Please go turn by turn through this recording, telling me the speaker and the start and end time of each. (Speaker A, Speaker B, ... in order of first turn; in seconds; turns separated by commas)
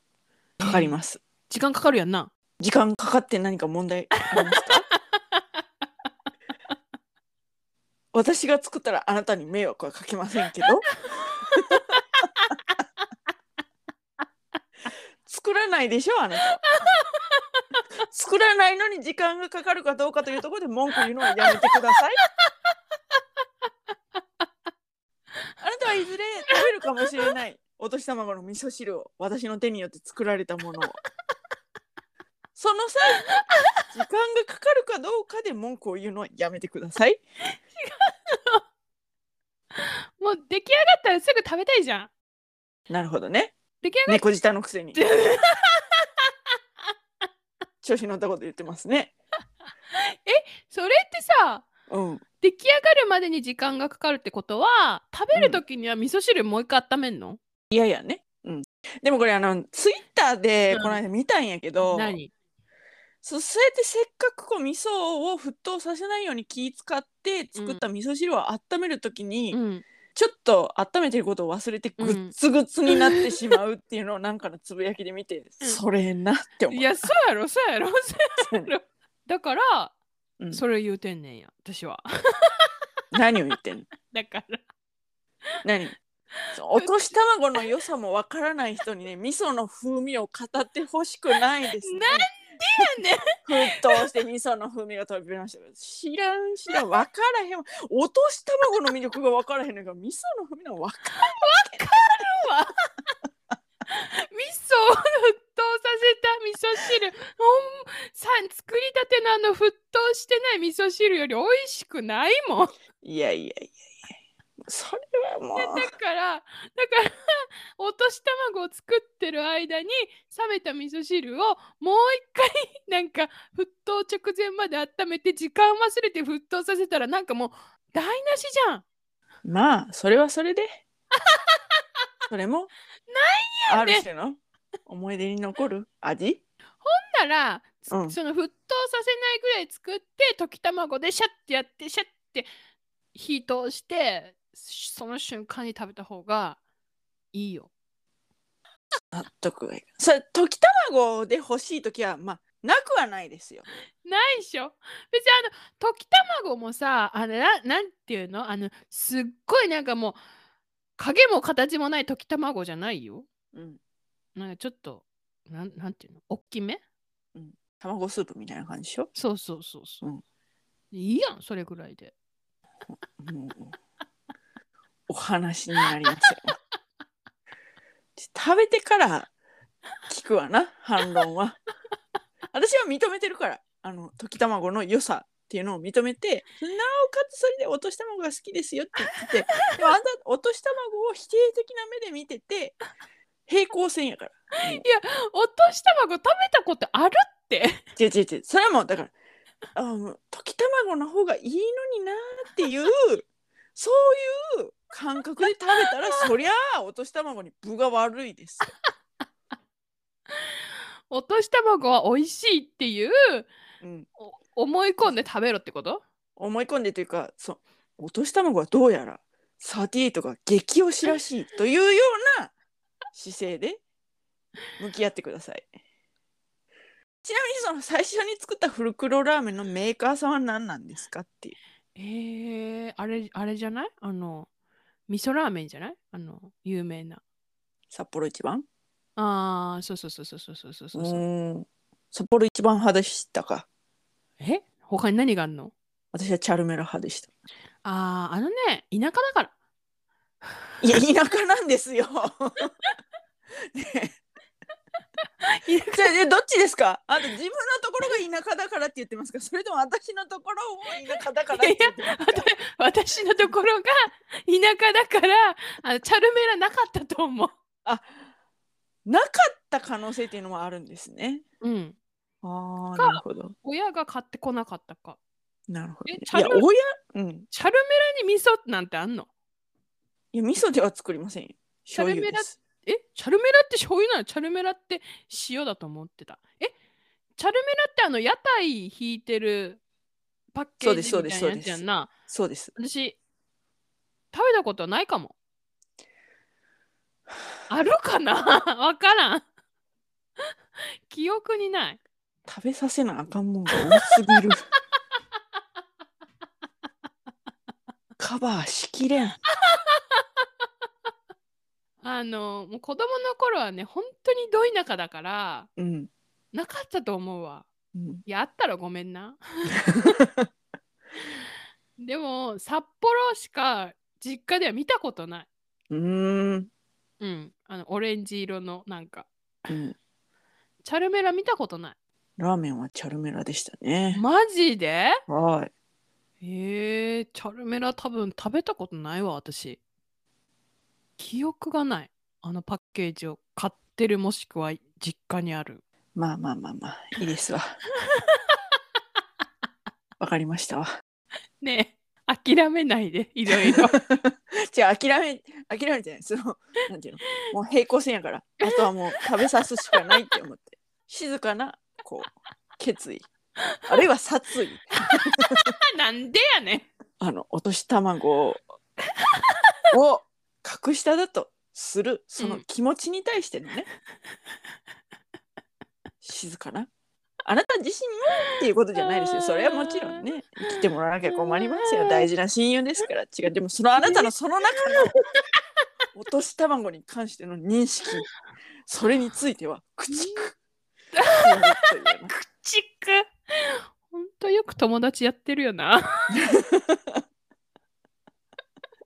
Speaker A: 0.6-1.2, Speaker B: 0.6-1.0, Speaker B: 1.5-2.3, Speaker A: 2.6-4.9, Speaker B: 4.3-5.4, Speaker A: 8.1-10.9, Speaker B: 11.7-12.0, Speaker A: 15.2-16.6, Speaker B: 16.6-17.8, Speaker A: 18.1-22.2, Speaker B: 21.4-21.7, Speaker A: 25.6-31.0, Speaker A: 32.6-33.3, Speaker B: 33.2-33.6, Speaker A: 33.9-37.2, Speaker B: 37.8-38.6, Speaker B: 39.8-42.1, Speaker A: 42.9-45.0, Speaker B: 43.8-44.2, Speaker B: 44.9-46.3, Speaker A: 47.8-49.1, Speaker B: 49.9-51.7, Speaker A: 51.9-52.2, Speaker B: 52.4-57.4, Speaker A: 55.3-55.6, Speaker A: 57.7-62.2, Speaker B: 60.7-61.0, Speaker B: 61.8-62.3, Speaker A: 63.2-69.6, Speaker B: 67.5-67.8, Speaker B: 69.5-69.8, Speaker A: 70.2-77.1, Speaker B: 72.0-72.4, Speaker B: 72.9-73.4, Speaker B: 76.7-79.9, Speaker A: 78.4-78.7, Speaker B: 80.5-82.7, Speaker A: 83.1-83.9, Speaker B: 84.1-84.6, Speaker A: 85.6-86.0, Speaker B: 86.5-87.2, Speaker A: 86.5-92.3, Speaker B: 91.8-94.1, Speaker A: 93.5-102.3, Speaker B: 101.2-102.7, Speaker B: 103.9-112.7, Speaker A: 113.0-113.8, Speaker A: 114.6-115.9, Speaker B: 115.5-128.8, Speaker A: 129.4-130.8, Speaker B: 131.3-131.6, Speaker A: 132.3-132.7, Speaker B: 133.1-134.1, Speaker A: 133.7-136.4, Speaker B: 136.8-142.5, Speaker A: 137.9-138.2, Speaker B: 143.2-146.6, Speaker B: 147.3-147.7, Speaker A: 149.1-153.7, Speaker B: 154.0-160.2, Speaker B: 161.0-163.3, Speaker A: 163.5-163.8, Speaker B: 164.4-166.8, Speaker A: 167.3-169.1, Speaker B: 169.1-170.1, Speaker B: 170.9-172.1, Speaker A: 173.2-173.7, Speaker A: 175.1-176.6, Speaker B: 176.0-176.3, Speaker A: 178.2-179.3, Speaker A: 180.1-181.6, Speaker A: 182.5-192.8, Speaker A: 193.5-194.8, Speaker B: 194.7-197.8, Speaker A: 198.0-199.1, Speaker A: 199.8-208.7, Speaker B: 205.8-206.2, Speaker B: 211.1-213.5, Speaker A: 213.8-214.1, Speaker B: 214.2-216.0, Speaker A: 215.0-215.3, Speaker A: 216.4-222.5, Speaker A: 223.1-223.8, Speaker A: 224.8-225.7, Speaker A: 227.2-231.6, Speaker B: 232.0-234.5, Speaker B: 235.1-237.2, Speaker A: 237.9-238.7, Speaker B: 239.2-241.2, Speaker A: 240.9-243.7, Speaker B: 244.4-245.7, Speaker A: 246.1-247.3, Speaker B: 247.8-249.5, Speaker A: 250.8-252.7, Speaker A: 253.7-254.2, Speaker B: 255.4-256.1, Speaker A: 255.9-262.5, Speaker B: 261.5-267.5, Speaker A: 269.1-271.4, Speaker B: 271.6-272.0, Speaker A: 272.4-273.5, Speaker B: 273.0-275.2, Speaker A: 275.7-277.5, Speaker B: 276.1-276.7, Speaker B: 277.5-279.3, Speaker A: 280.3-282.6, Speaker B: 281.9-286.7, Speaker B: 287.4-289.8, Speaker B: 290.5-292.1, Speaker A: 290.8-292.7, Speaker B: 292.8-293.2, Speaker B: 294.3-295.4, Speaker B: 297.7-299.5, Speaker B: 301.1-302.0, Speaker A: 302.5-304.6, Speaker A: 308.2-309.4, Speaker B: 309.5-310.0, Speaker B: 312.0-315.7, Speaker A: 315.8-316.1, Speaker B: 316.5-317.7, Speaker A: 317.9-318.2, Speaker B: 318.3-320.1, Speaker A: 319.9-320.5, Speaker B: 322.0-325.5, Speaker A: 325.9-326.7, Speaker B: 327.2-329.3, Speaker A: 329.7-330.0, Speaker B: 330.8-332.0, Speaker A: 332.4-334.2, Speaker B: 334.1-335.2, Speaker A: 335.3-335.7, Speaker B: 336.4-339.8, Speaker B: 341.2-345.8, Speaker A: 346.2-347.8, Speaker B: 348.1-348.4, Speaker A: 350.2-350.9, Speaker B: 351.6-354.0, Speaker A: 353.9-363.3, Speaker B: 358.6-359.2, Speaker A: 363.9-365.5, Speaker B: 365.1-366.9, Speaker A: 367.2-368.6, Speaker B: 369.3-369.7, Speaker A: 369.9-373.9, Speaker B: 372.4-372.6, Speaker A: 376.2-376.9, Speaker A: 377.4-385.1, Speaker B: 379.1-380.2, Speaker B: 381.2-382.3, Speaker B: 384.0-385.4, Speaker A: 386.1-388.3, Speaker A: 388.9-390.6, Speaker B: 390.1-390.5, Speaker B: 391.2-396.4, Speaker A: 391.4-392.3, Speaker A: 396.3-397.2